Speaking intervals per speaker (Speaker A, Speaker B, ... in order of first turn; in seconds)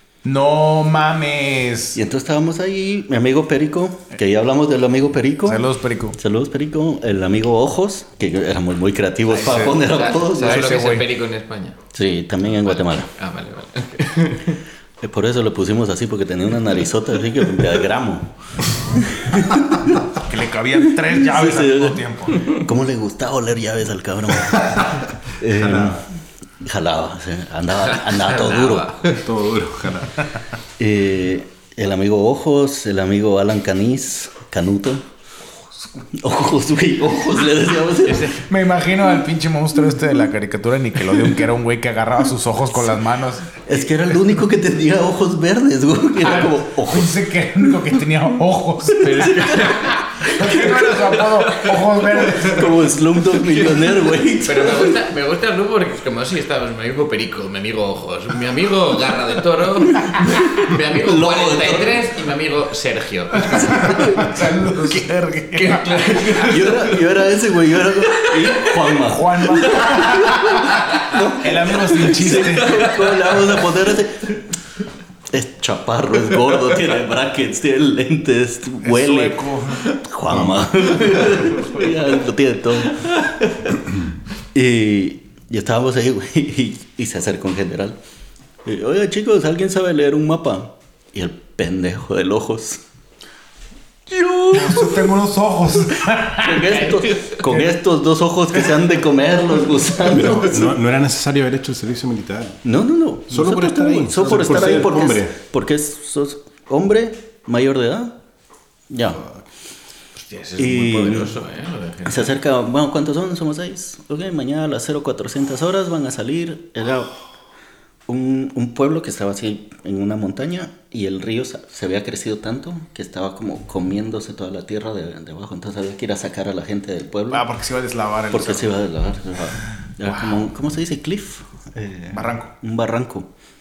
Speaker A: 0.2-2.0, 5.5-6.2, 9.3-9.9, 10.4-11.1, 20.1-22.5, 38.4-43.6, 46.2-52.8, 63.5-66.4, 69.0-73.2, 78.8-80.0, 94.5-96.9, 127.3-128.8, 130.0-130.5, 132.1-132.5
Speaker B: 1.9-5.6, 6.2-10.8, 11.9-13.1, 15.0-20.1, 20.9-26.1, 26.6-28.9, 30.8-35.0, 36.1-38.4, 43.6-47.1, 49.0-49.9, 52.3-55.0, 59.8-62.0, 63.4-64.3, 66.4-74.4, 75.3-79.5, 80.0-83.1, 84.5-88.0, 88.7-92.8, 94.1-95.2, 96.4-100.7, 102.6-108.2, 108.9-109.2, 110.6-111.3, 112.1-117.1, 118.1-127.5, 128.3-133.3
Speaker C: 9.6-11.8, 12.5-14.6, 27.8-29.2, 38.0-38.4, 49.0-52.5, 53.3-64.2, 64.9-67.0, 68.0-68.7, 96.8-97.4, 110.2-112.4
Speaker D: 24.6-26.1, 29.1-30.4, 100.0-102.6, 103.3-105.3